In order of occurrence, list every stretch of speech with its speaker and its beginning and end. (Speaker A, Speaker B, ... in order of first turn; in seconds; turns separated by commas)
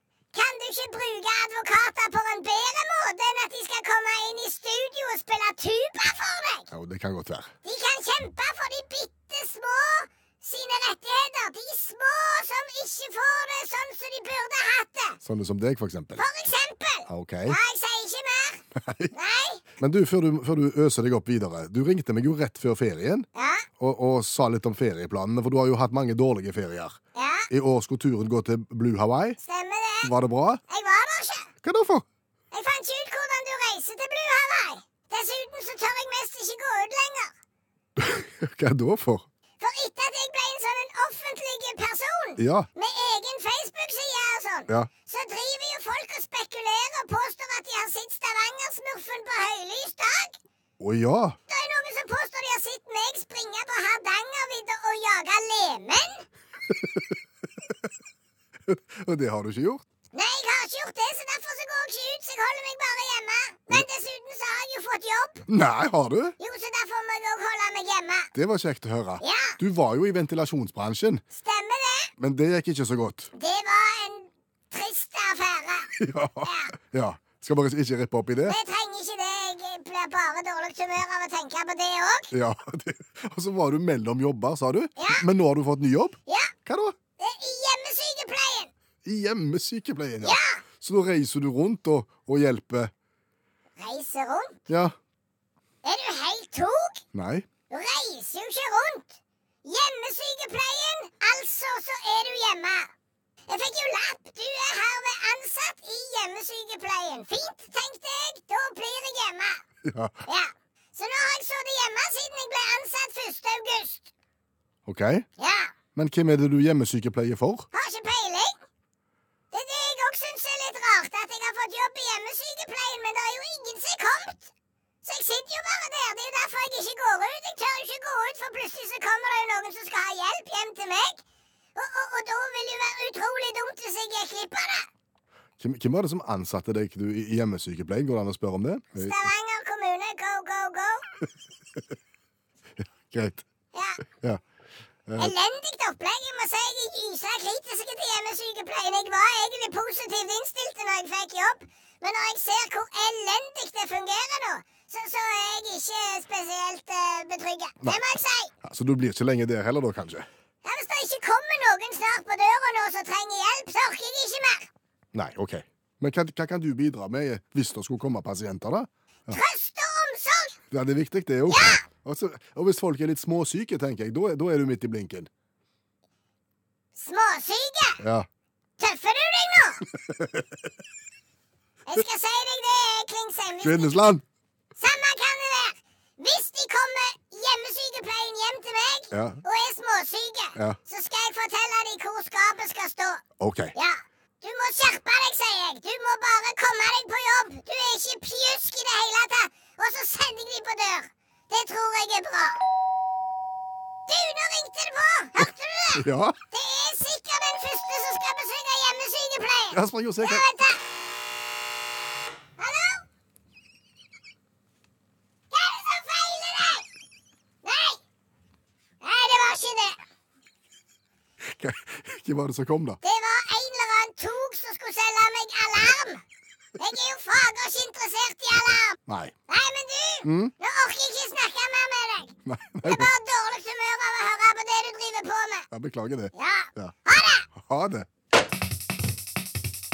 Speaker A: 0.3-6.7, Speaker B: 6.7-7.5, Speaker A: 7.7-15.2, Speaker B: 15.2-16.3, Speaker A: 16.2-19.6, Speaker B: 17.1-17.6, Speaker B: 18.8-19.1, Speaker B: 19.8-23.3, Speaker A: 23.4-23.7, Speaker B: 23.8-27.0, Speaker A: 27.2-27.5, Speaker B: 27.5-29.4, Speaker A: 29.4-30.1, Speaker B: 30.0-30.6, Speaker A: 30.7-31.5, Speaker B: 31.6-32.0, Speaker A: 32.5-37.3, Speaker B: 38.0-39.3, Speaker A: 39.6-50.4, Speaker B: 42.4-42.7, Speaker B: 50.8-51.4, Speaker A: 51.5-56.3, Speaker B: 56.7-57.1, Speaker B: 58.7-59.8, Speaker A: 60.1-65.4, Speaker B: 65.5-66.4, Speaker A: 66.4-68.3, Speaker B: 68.3-71.2, Speaker A: 69.2-69.6, Speaker A: 71.3-72.1, Speaker B: 72.2-73.3, Speaker A: 73.4-75.9, Speaker B: 76.0-78.6, Speaker A: 76.4-76.7, Speaker A: 78.5-82.3, Speaker B: 82.3-87.0, Speaker A: 85.0-85.3, Speaker A: 86.3-86.5, Speaker A: 87.2-88.7, Speaker B: 89.0-92.9, Speaker A: 90.2-90.6, Speaker A: 93.8-94.6, Speaker B: 94.7-95.0, Speaker A: 95.8-97.0, Speaker B: 97.1-97.5, Speaker A: 97.7-102.9, Speaker A: 103.5-109.6, Speaker B: 109.8-110.2, Speaker A: 110.3-114.1, Speaker B: 114.9-115.3, Speaker A: 115.4-115.7, Speaker B: 116.0-117.7, Speaker A: 117.7-118.6, Speaker A: 119.5-124.5, Speaker A: 125.0-131.2, Speaker A: 131.8-134.9, Speaker B: 135.6-139.2, Speaker A: 139.0-141.1, Speaker B: 143.1-143.4, Speaker A: 143.7-144.0, Speaker B: 145.1-145.3, Speaker A: 145.2-158.5, Speaker B: 158.6-160.3, Speaker A: 160.6-164.7, Speaker B: 165.1-169.4, Speaker A: 169.3-170.6, Speaker B: 170.7-175.3, Speaker A: 171.5-171.8, Speaker A: 177.0-178.0, Speaker B: 178.0-178.3, Speaker A: 178.8-179.8, Speaker B: 180.1-180.4, Speaker A: 181.9-184.0, Speaker B: 183.6-184.2, Speaker A: 184.8-193.2, Speaker B: 189.1-189.4, Speaker B: 193.4-193.7, Speaker A: 193.8-202.6, Speaker A: 204.1-210.8, Speaker B: 205.9-206.4, Speaker B: 209.7-210.5, Speaker A: 212.6-213.0, Speaker A: 215.5-216.9, Speaker A: 217.6-218.0, Speaker A: 219.0-220.0, Speaker B: 221.4-223.0, Speaker A: 223.0-226.2, Speaker A: 226.8-229.0, Speaker B: 229.1-229.3, Speaker A: 229.5-235.7, Speaker B: 230.2-230.5, Speaker B: 232.5-233.1, Speaker B: 235.7-236.9, Speaker A: 236.3-237.5, Speaker B: 237.6-238.1